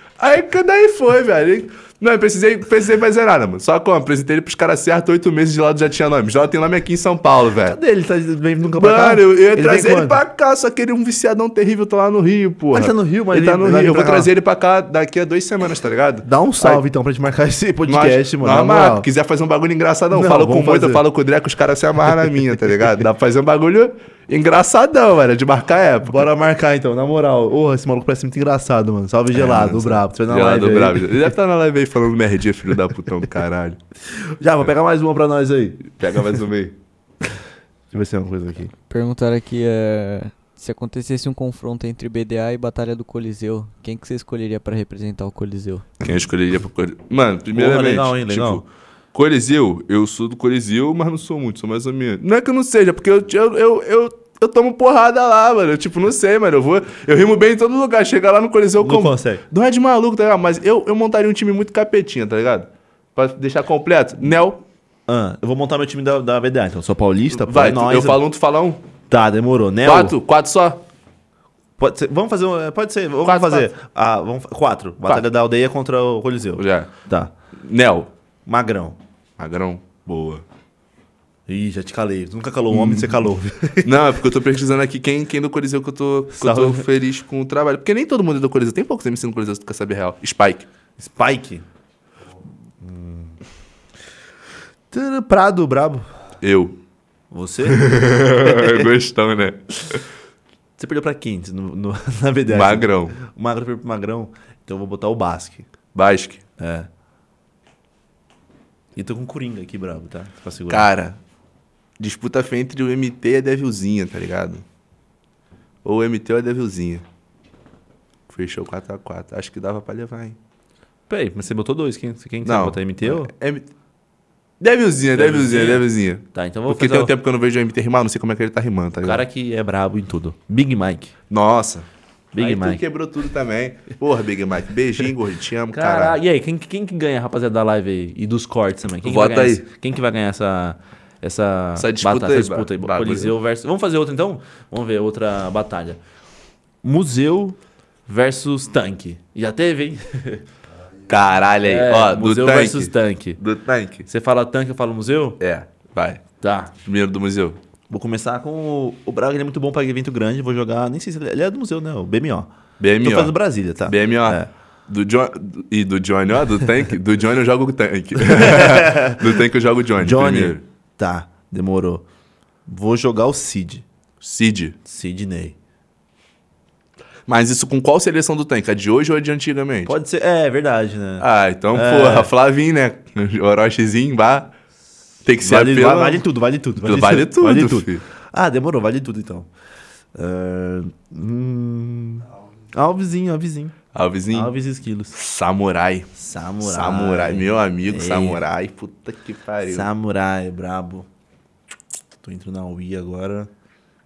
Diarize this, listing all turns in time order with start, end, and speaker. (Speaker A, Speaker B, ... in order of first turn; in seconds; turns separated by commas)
Speaker A: 0.2-7.8, Speaker B: 7.7-10.2, Speaker A: 8.8-16.8, Speaker B: 12.7-14.3, Speaker B: 16.2-19.1, Speaker A: 17.9-26.3, Speaker B: 20.1-21.0, Speaker B: 26.1-31.3, Speaker A: 29.3-33.8, Speaker B: 34.1-35.9, Speaker A: 35.9-36.8, Speaker B: 37.9-38.7, Speaker C: 38.9-45.9, Speaker A: 46.0-64.6, Speaker B: 47.5-48.6, Speaker B: 58.8-59.4, Speaker B: 65.1-68.2, Speaker A: 67.3-68.8, Speaker B: 69.1-70.2, Speaker A: 69.8-70.8, Speaker B: 71.8-77.3, Speaker A: 73.2-73.7, Speaker A: 76.6-76.9, Speaker A: 77.5-78.1, Speaker B: 78.5-79.0, Speaker A: 79.4-80.4, Speaker B: 81.5-83.9, Speaker A: 82.7-83.3, Speaker A: 83.8-90.7, Speaker B: 86.3-86.9, Speaker B: 91.0-91.7, Speaker B: 92.8-93.4, Speaker B: 94.9-96.1, Speaker A: 96.4-96.8, Speaker B: 97.3-98.9, Speaker A: 97.7-100.0, Speaker B: 100.8-105.7, Speaker A: 102.5-103.2, Speaker A: 105.9-106.4, Speaker B: 106.6-106.9, Speaker B: 109.0-110.9, Speaker A: 110.7-111.2, Speaker A: 112.0-114.7, Speaker A: 115.8-117.0, Speaker A: 118.3-120.4, Speaker B: 121.1-123.3, Speaker A: 122.4-123.7, Speaker A: 124.6-129.2, Speaker B: 125.2-127.1, Speaker B: 129.0-131.1, Speaker A: 131.3-136.2, Speaker B: 132.3-132.8, Speaker B: 135.7-146.0, Speaker A: 139.0-139.6, Speaker A: 141.8-143.3, Speaker B: 146.8-150.4, Speaker A: 151.1-154.1, Speaker B: 151.6-153.4, Speaker B: 154.1-155.4, Speaker A: 155.4-156.2, Speaker B: 156.4-156.7, Speaker A: 156.8-157.6, Speaker B: 157.9-164.5, Speaker A: 162.8-170.6, Speaker B: 168.2-169.2, Speaker B: 170.0-172.1, Speaker B: 172.7-173.8, Speaker A: 174.2-174.8, Speaker B: 174.8-175.6, Speaker A: 177.3-180.0, Speaker B: 179.9-182.3, Speaker A: 181.2-184.5, Speaker A: 185.2-188.0, Speaker B: 185.4-189.5, Speaker B: 190.2-193.8, Speaker A: 193.9-194.6, Speaker B: 194.3-195.2, Speaker A: 195.1-199.9, Speaker B: 196.2-198.4, Speaker B: 199.6-201.1, Speaker B: 202.2-203.5